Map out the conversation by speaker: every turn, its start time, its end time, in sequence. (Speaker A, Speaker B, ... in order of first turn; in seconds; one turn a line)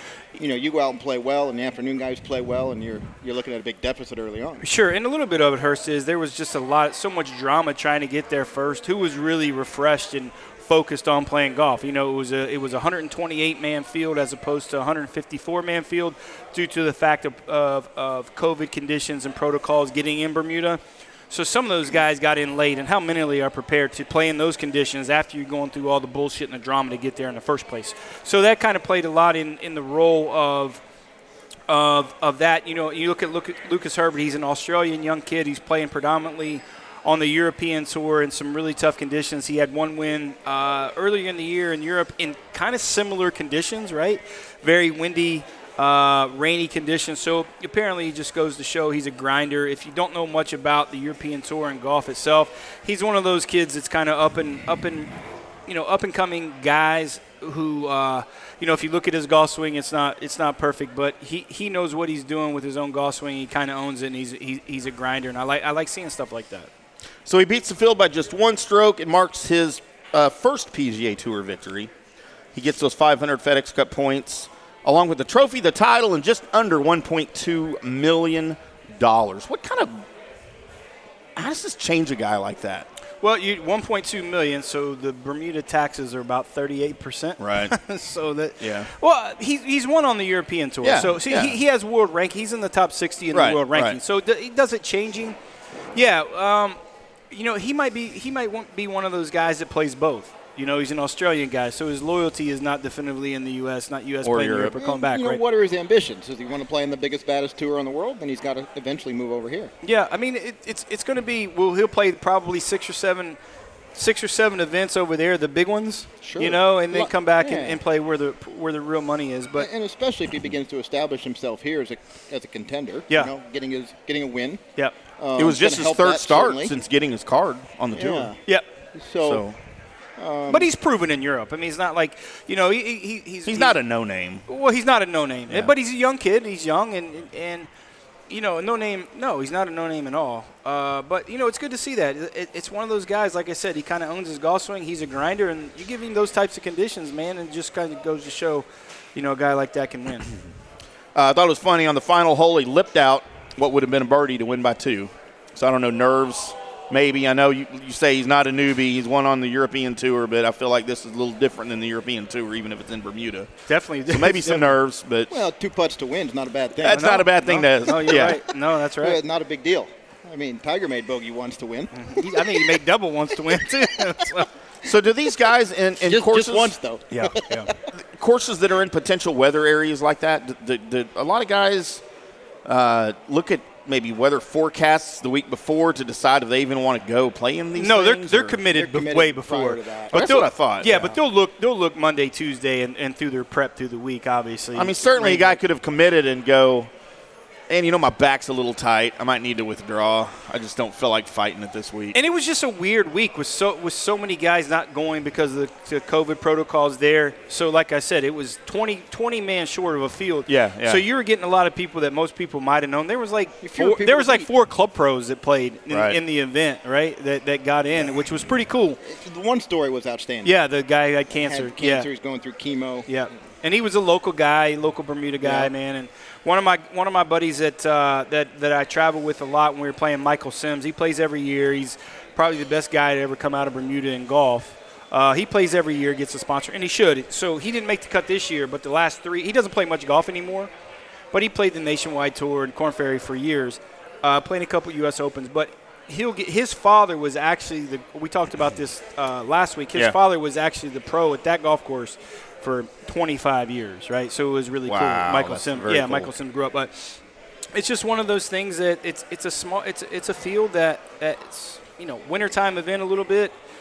Speaker A: 0.4-4.7
Speaker B: 4.6-30.8
Speaker B: 31.7-55.1
Speaker B: 55.7-66.7
Speaker C: 67.2-71.9
Speaker C: 72.5-80.1
Speaker C: 81.4-82.9
Speaker B: 83.2-95.4
Speaker C: 87.4-87.7
Speaker C: 88.6-88.9
Speaker C: 90.8-91.6
Speaker C: 93.3-94.0
Speaker B: 95.9-96.8
Speaker B: 97.3-105.4
Speaker C: 104.2-104.7
Speaker A: 104.8-109.7
Speaker B: 109.8-113.4
Speaker B: 114.0-119.7
Speaker A: 116.2-117.8
Speaker A: 119.6-124.6
Speaker A: 125.2-126.7
Speaker C: 125.4-128.3
Speaker A: 127.9-128.4
Speaker A: 128.9-129.4
Speaker C: 129.2-129.6
Speaker A: 130.2-130.7
Speaker B: 130.5-133.8
Speaker C: 133.4-134.4
Speaker B: 134.5-137.7
Speaker B: 138.3-150.3
Speaker C: 151.2-163.5
Speaker B: 163.7-164.8
Speaker C: 164.1-165.3
Speaker A: 165.3-167.2
Speaker C: 166.8-168.4
Speaker B: 166.9-169.2
Speaker A: 167.9-168.4
Speaker A: 169.0-172.6
Speaker B: 171.9-174.5
Speaker C: 174.8-176.7
Speaker A: 176.1-177.7
Speaker B: 177.1-177.7
Speaker C: 178.2-182.0
Speaker C: 182.7-188.6
Speaker B: 187.8-195.6
Speaker A: 188.7-190.2
Speaker C: 190.1-191.2
Speaker C: 194.8-196.9
Speaker C: 197.7-202.2
Speaker B: 202.1-219.0
Speaker C: 210.5-211.0
Speaker A: 213.6-214.5
Speaker C: 215.9-216.2
Speaker A: 219.0-220.6
Speaker B: 220.4-222.1
Speaker A: 221.3-223.1
Speaker B: 223.1-240.7
Speaker A: 225.4-225.7
Speaker B: 241.3-257.2
Speaker C: 254.9-256.3
Speaker B: 257.7-263.5